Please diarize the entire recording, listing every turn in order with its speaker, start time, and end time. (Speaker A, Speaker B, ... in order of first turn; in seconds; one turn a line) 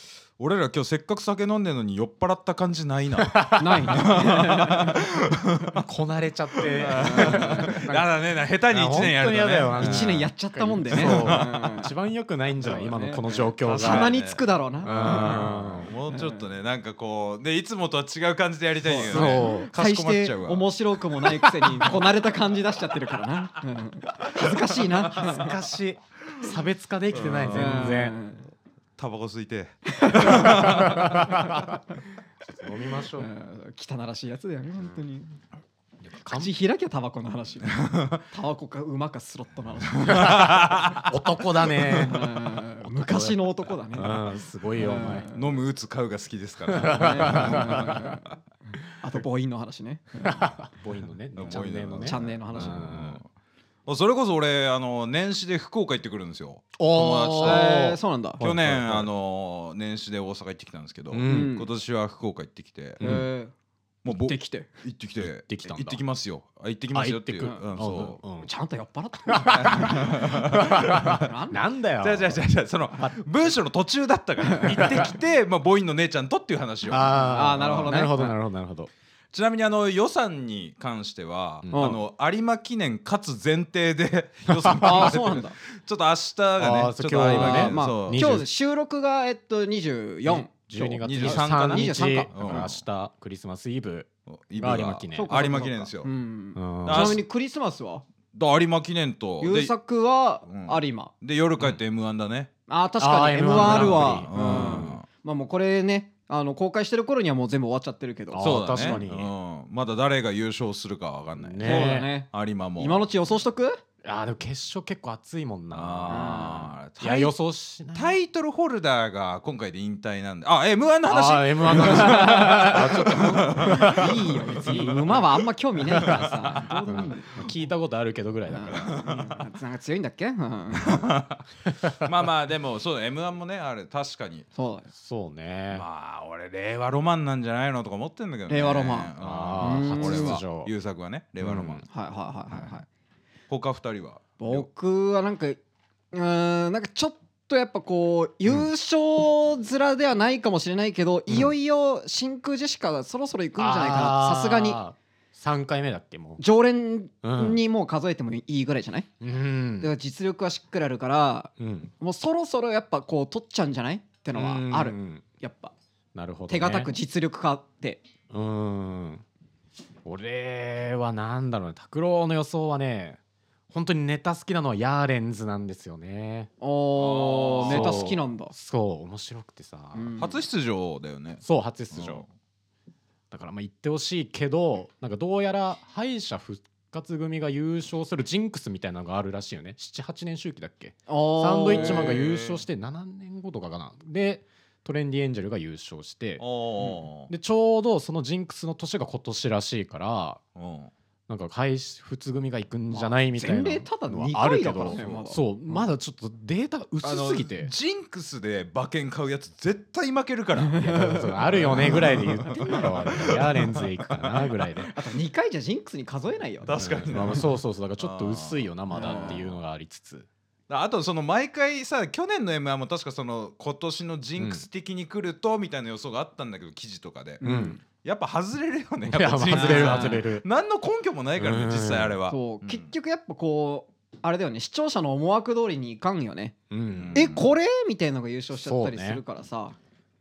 Speaker A: 0.4-5.8
Speaker B: 3.2-4.0
Speaker C: 3.5-5.0
Speaker B: 5.8-7.8
Speaker A: 6.7-10.3
Speaker C: 6.9-8.0
Speaker B: 8.7-14.1
Speaker C: 9.8-11.9
Speaker A: 10.9-11.6
Speaker C: 12.6-15.5
Speaker A: 13.6-20.7
Speaker B: 14.8-15.9
Speaker C: 16.1-16.5
Speaker C: 18.8-25.6
Speaker B: 19.0-19.7
Speaker B: 25.1-28.2
Speaker A: 25.2-25.5
Speaker A: 27.1-28.0
Speaker C: 27.5-28.4
Speaker A: 29.0-31.3
Speaker C: 29.9-30.8
Speaker B: 30.3-31.8
Speaker C: 31.3-31.7
Speaker B: 32.5-33.3
Speaker C: 33.2-35.4
Speaker B: 36.0-36.5
Speaker C: 36.3-40.5
Speaker A: 37.7-38.2
Speaker A: 40.0-41.1
Speaker B: 40.1-45.2
Speaker C: 41.9-45.6
Speaker A: 45.3-48.1
Speaker B: 46.7-48.1
Speaker C: 46.9-48.3
Speaker C: 49.0-50.5
Speaker B: 50.2-53.2
Speaker A: 51.4-53.3
Speaker C: 52.0-52.9
Speaker A: 53.9-57.7
Speaker B: 56.8-59.1
Speaker C: 57.4-58.4
Speaker A: 58.4-63.0
Speaker B: 61.1-61.5
Speaker C: 61.2-61.7
Speaker B: 63.0-63.2
Speaker C: 63.0-63.5
Speaker A: 64.0-68.2
Speaker C: 64.0-64.7
Speaker B: 65.2-66.0
Speaker B: 66.9-68.5
Speaker C: 68.4-71.6
Speaker B: 69.3-72.4
Speaker A: 69.5-71.2
Speaker A: 72.0-78.0
Speaker C: 74.4-75.1
Speaker B: 76.9-78.9
Speaker C: 77.1-78.4
Speaker A: 79.3-88.4
Speaker B: 81.6-81.9
Speaker C: 81.7-82.0
Speaker B: 84.7-85.1
Speaker C: 84.8-85.5
Speaker B: 86.6-88.5
Speaker C: 87.3-90.5
Speaker B: 90.3-95.6
Speaker A: 90.7-92.8
Speaker C: 91.2-92.7
Speaker A: 94.3-96.1
Speaker C: 95.1-98.0
Speaker B: 96.5-97.2
Speaker A: 96.8-97.2
Speaker A: 98.3-99.7
Speaker C: 99.4-101.1
Speaker A: 100.5-102.5
Speaker C: 102.7-109.0
Speaker B: 103.0-105.0
Speaker A: 103.5-105.0
Speaker B: 108.3-109.3
Speaker A: 108.4-113.1
Speaker B: 111.4-112.1
Speaker C: 111.6-113.8
Speaker B: 114.0-118.2
Speaker A: 115.7-117.3
Speaker C: 116.1-116.7
Speaker A: 117.9-125.1
Speaker B: 121.0-125.1
Speaker C: 121.7-127.5
Speaker A: 125.9-127.1
Speaker B: 125.9-129.0
Speaker C: 128.5-131.0
Speaker A: 128.7-129.4
Speaker A: 130.8-131.4
Speaker B: 131.6-132.0
Speaker A: 132.0-134.5
Speaker C: 134.5-134.9
Speaker B: 134.9-135.8
Speaker A: 135.7-141.8
Speaker C: 138.5-140.4
Speaker B: 139.2-140.7
Speaker B: 141.4-141.8
Speaker C: 141.9-142.9
Speaker A: 143.5-144.7
Speaker C: 144.4-145.6
Speaker C: 146.1-154.8
Speaker B: 153.6-156.4
Speaker C: 156.4-159.1
Speaker B: 157.2-157.6
Speaker B: 159.2-159.9
Speaker C: 159.8-165.7
Speaker B: 161.6-161.9
Speaker B: 164.3-165.2
Speaker B: 166.1-166.9
Speaker C: 166.5-168.0
Speaker B: 168.3-169.2
Speaker B: 170.0-173.2
Speaker B: 173.7-176.5
Speaker C: 176.6-178.5
Speaker A: 176.9-178.1
Speaker B: 177.6-180.1
Speaker C: 179.9-180.4
Speaker A: 180.2-182.3
Speaker B: 181.4-182.2
Speaker B: 183.3-196.4
Speaker C: 191.1-192.2
Speaker A: 191.7-192.6
Speaker A: 196.4-197.3
Speaker C: 196.8-197.0
Speaker B: 197.3-200.4
Speaker A: 200.6-200.9
Speaker B: 201.3-207.7
Speaker C: 202.9-205.8
Speaker A: 204.8-205.2
Speaker A: 207.0-210.8
Speaker C: 210.6-212.9
Speaker B: 210.8-214.9
Speaker A: 211.4-214.9
Speaker C: 214.9-217.4
Speaker A: 216.6-219.6
Speaker B: 216.8-220.3
Speaker C: 218.9-219.4
Speaker A: 220.7-232.9
Speaker B: 224.4-224.6
Speaker C: 227.4-227.8
Speaker B: 227.4-227.8
Speaker B: 229.0-230.4
Speaker C: 229.5-230.2
Speaker B: 231.4-232.2
Speaker C: 232.3-236.6
Speaker B: 236.7-237.3
Speaker A: 236.9-237.5
Speaker C: 237.1-239.8
Speaker B: 238.5-239.2